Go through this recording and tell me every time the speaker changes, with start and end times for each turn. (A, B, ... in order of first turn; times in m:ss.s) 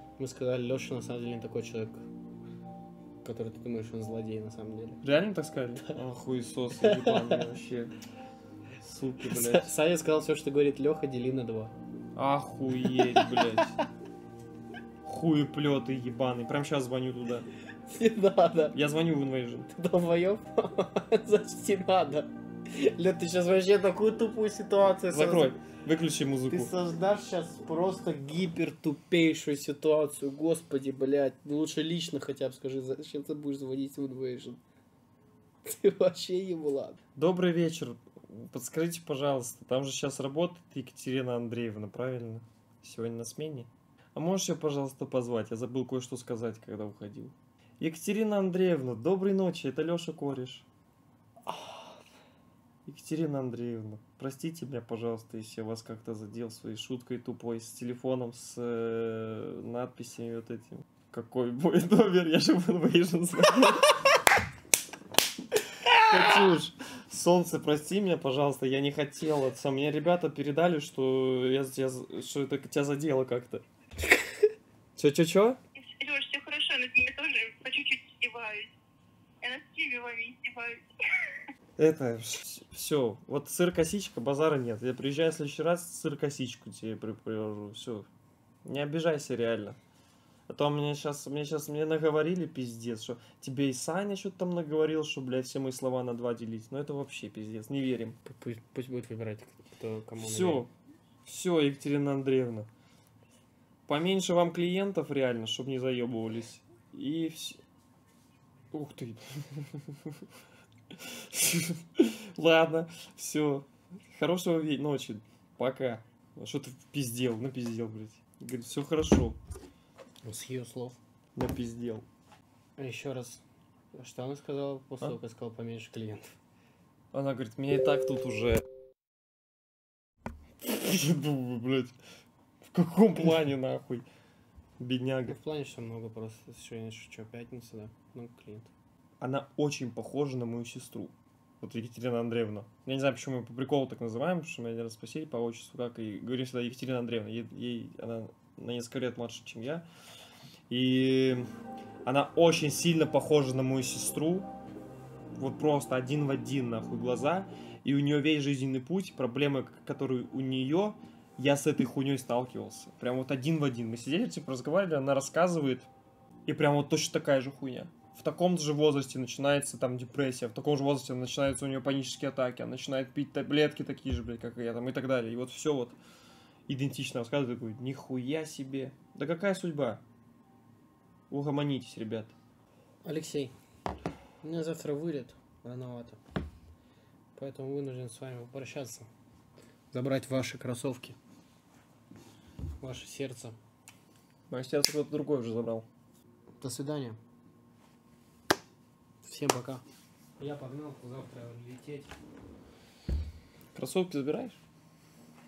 0:00.2-0:02.0 A
0:03.2-0:05.0 A
0:05.0-0:07.9 B
0:06.8-0:07.4 A
0:08.8-0:09.7 B
0:09.2-0:11.7 A
0:12.1-0:13.8 B
0:12.9-0:13.4 A
0:15.0-0:17.5 B
0:17.9-0:18.8 A
0:18.7-0:19.7 B
0:19.7-0:25.5 A
0:25.1-0:26.7 B
0:26.5-0:34.6 A
0:35.6-0:37.0 A
0:37.2-0:50.6 B
0:51.5-0:52.0 A
0:52.8-1:04.0 B
1:05.8-1:13.6 B
1:15.0-1:15.6 B
1:15.9-1:18.7 C
1:19.4-1:20.8 C
1:21.8-1:28.1 B
1:28.6-1:29.8 B
1:30.5-1:38.2 B
1:38.2-1:40.6 A
1:40.2-1:40.7 B
1:41.2-1:42.7 B
1:43.9-1:47.6 B
1:48.7-1:50.2 B
1:50.9-1:59.4 B
2:00.2-2:01.0 A
2:01.4-2:02.0 B
2:02.8-2:03.4 A
2:03.9-2:06.3 A
2:07.1-2:08.6 B
2:10.6-2:11.9 B
2:12.7-2:14.0 B
2:14.8-2:15.4 B
2:15.2-2:18.7 A
2:19.2-2:29.8 B
2:30.7-2:31.5 B
2:32.0-2:34.5 B
2:35.4-2:45.9 B
2:46.5-2:56.0 B
2:56.7-3:00.0 B
3:01.3-3:02.3 B
3:03.0-3:03.5 A
3:04.4-3:06.2 A
3:07.3-3:09.1 A
3:09.9-3:11.2 A
3:12.8-3:13.6 A
3:14.5-3:15.9 B
3:16.6-3:17.2 A
3:19.2-3:19.8 A
3:20.4-3:22.1 A
3:23.7-3:24.6 B